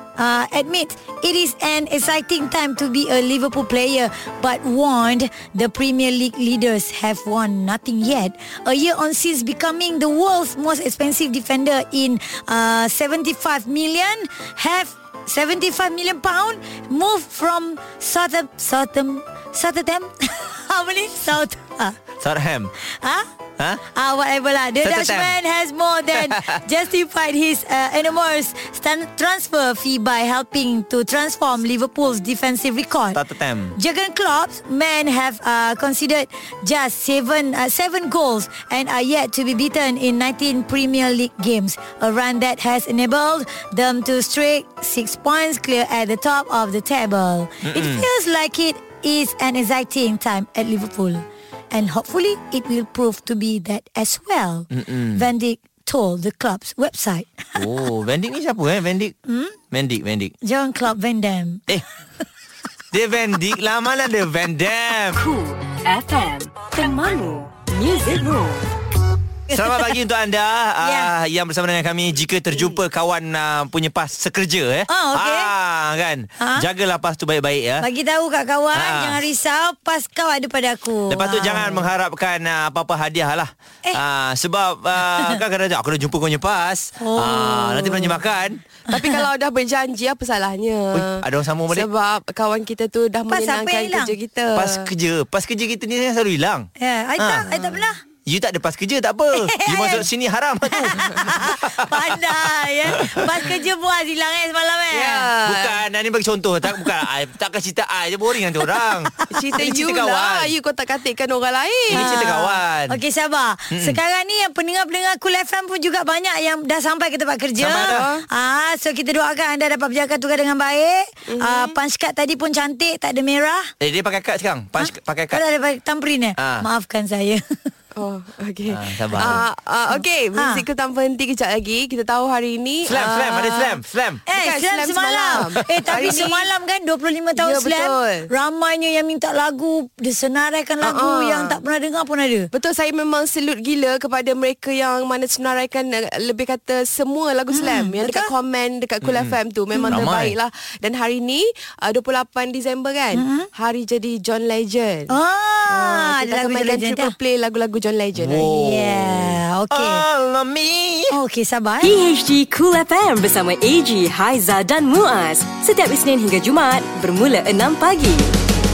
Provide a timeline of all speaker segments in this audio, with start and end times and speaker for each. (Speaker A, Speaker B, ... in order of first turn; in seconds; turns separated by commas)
Speaker A: 0.2-22.0, Speaker B: 22.2-22.7, Speaker A: 23.0-23.3, Speaker A: 23.9-33.2, Speaker B: 24.8-25.3, Speaker B: 26.1-26.6, Speaker B: 33.1-33.8, Speaker A: 33.8-57.6, Speaker B: 47.7-48.0, Speaker B: 54.7-55.3, Speaker B: 57.6-59.1, Speaker A: 59.3-59.6, Speaker B: 59.7-60.3, Speaker A: 60.4-61.6, Speaker B: 62.9-65.2, Speaker C: 65.2-68.7, Speaker B: 69.5-77.8, Speaker A: 69.5-69.9, Speaker A: 70.8-71.1, Speaker A: 74.9-75.5, Speaker A: 77.8-81.9, Speaker B: 78.7-79.2, Speaker B: 81.1-88.6, Speaker A: 87.0-88.2, Speaker D: 88.9-94.9, Speaker A: 88.9-89.3, Speaker B: 90.9-91.9, Speaker A: 93.3-94.1, Speaker B: 94.5-96.7, Speaker A: 96.8-98.0, Speaker B: 97.2-97.5, Speaker B: 98.2-102.2, Speaker A: 99.4-100.1, Speaker A: 100.7-105.3, Speaker B: 102.9-103.5, Speaker D: 104.9-105.8, Speaker B: 105.4-110.5, Speaker D: 109.3-112.4, Speaker B: 111.9-113.0, Speaker A: 111.9-123.7, Speaker B: 113.7-114.0, Speaker B: 117.6-118.0, Speaker D: 117.7-118.2, Speaker D: 121.3-121.8, Speaker B: 123.8-125.4, Speaker A: 124.8-127.6, Speaker B: 126.4-126.7, Speaker D: 128.0-136.5, Speaker B: 128.7-129.4, Speaker A: 130.3-130.6, Speaker B: 132.8-134.2, Speaker A: 134.3-142.5, Speaker D: 137.4-138.3, Speaker D: 140.8-141.6, Speaker D: 142.5-155.1, Speaker A: 147.5-148.3, Speaker B: 149.0-149.4, Speaker A: 149.7-150.1, Speaker B: 149.9-150.3, Speaker A: 153.1-153.5, Speaker A: 155.1-157.2, Speaker D: 155.7-158.5, Speaker B: 158.2-161.2, Speaker A: 158.5-160.0, Speaker A: 161.1-161.9, Speaker C: 161.8-168.4